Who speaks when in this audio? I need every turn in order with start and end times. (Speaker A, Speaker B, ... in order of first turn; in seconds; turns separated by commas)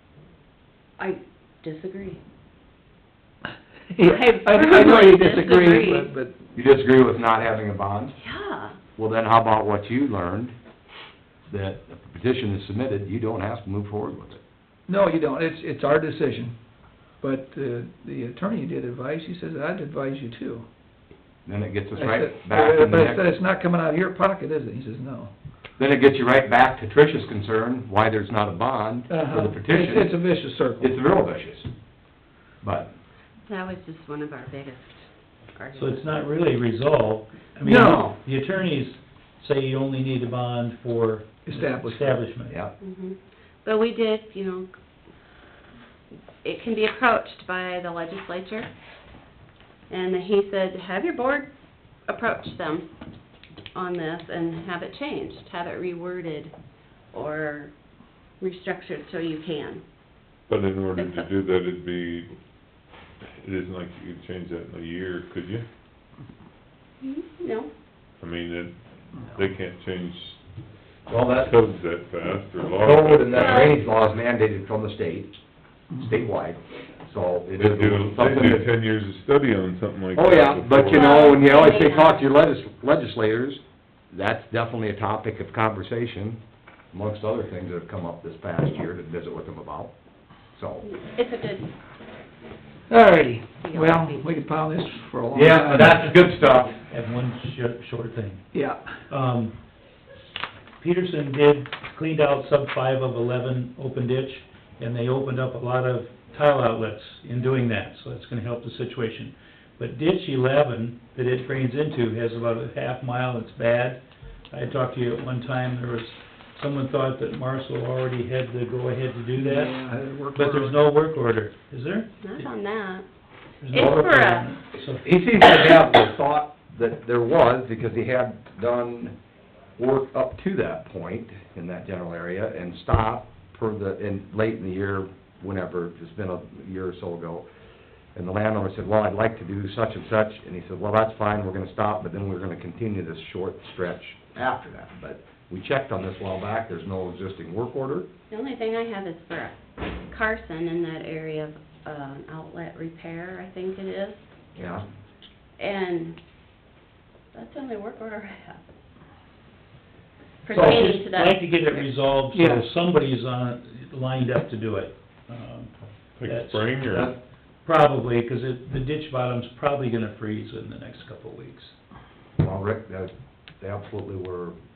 Speaker A: 1.0-2.2, Speaker B: 3.9-6.3, Speaker A: 4.0-6.1, Speaker C: 6.5-8.1, Speaker A: 8.2-8.8, Speaker C: 8.9-10.5, Speaker C: 11.5-14.4, Speaker B: 14.9-16.5, Speaker B: 17.2-20.6, Speaker C: 21.4-23.3, Speaker B: 21.9-25.3, Speaker C: 25.8-30.2, Speaker B: 29.1-31.0, Speaker C: 30.8-31.7, Speaker C: 32.6-32.9, Speaker A: 33.5-36.2, Speaker D: 35.7-42.6, Speaker B: 37.6-38.1, Speaker B: 41.5-42.2, Speaker A: 42.8-44.7, Speaker A: 46.4-48.7, Speaker A: 49.9-51.5, Speaker A: 52.1-52.9, Speaker A: 53.7-56.5, Speaker A: 57.1-57.7, Speaker A: 58.4-59.8, Speaker E: 60.5-62.3, Speaker A: 60.9-61.3, Speaker E: 63.4-65.7, Speaker A: 67.0-67.7, Speaker E: 68.2-68.7, Speaker E: 69.2-70.4, Speaker C: 71.1-71.6, Speaker E: 71.2-73.7, Speaker C: 72.8-75.3, Speaker A: 73.3-73.8, Speaker C: 76.0-78.7, Speaker E: 77.6-81.5, Speaker C: 80.1-86.4, Speaker A: 80.9-82.3, Speaker C: 86.9-89.9, Speaker C: 90.5-90.8, Speaker A: 90.8-91.7, Speaker B: 92.9-96.1, Speaker A: 93.6-94.5, Speaker C: 95.3-96.8, Speaker D: 96.9-98.4, Speaker B: 98.5-98.8, Speaker D: 99.1-99.5, Speaker D: 100.8-114.0, Speaker D: 114.5-119.8, Speaker B: 119.3-120.8, Speaker D: 120.3-122.5, Speaker A: 122.2-123.0, Speaker D: 123.6-125.0, Speaker A: 123.7-124.5, Speaker C: 123.7-124.0, Speaker C: 125.0-129.1, Speaker C: 129.8-137.4, Speaker C: 138.1-148.1, Speaker A: 148.3-149.5, Speaker A: 150.1-154.3, Speaker C: 154.6-154.8, Speaker A: 155.6-156.2, Speaker A: 157.3-158.7, Speaker A: 160.4-161.8, Speaker C: 160.5-160.9, Speaker D: 160.5-167.1, Speaker B: 162.3-162.7, Speaker E: 166.2-167.1, Speaker D: 167.6-171.7, Speaker C: 172.4-174.5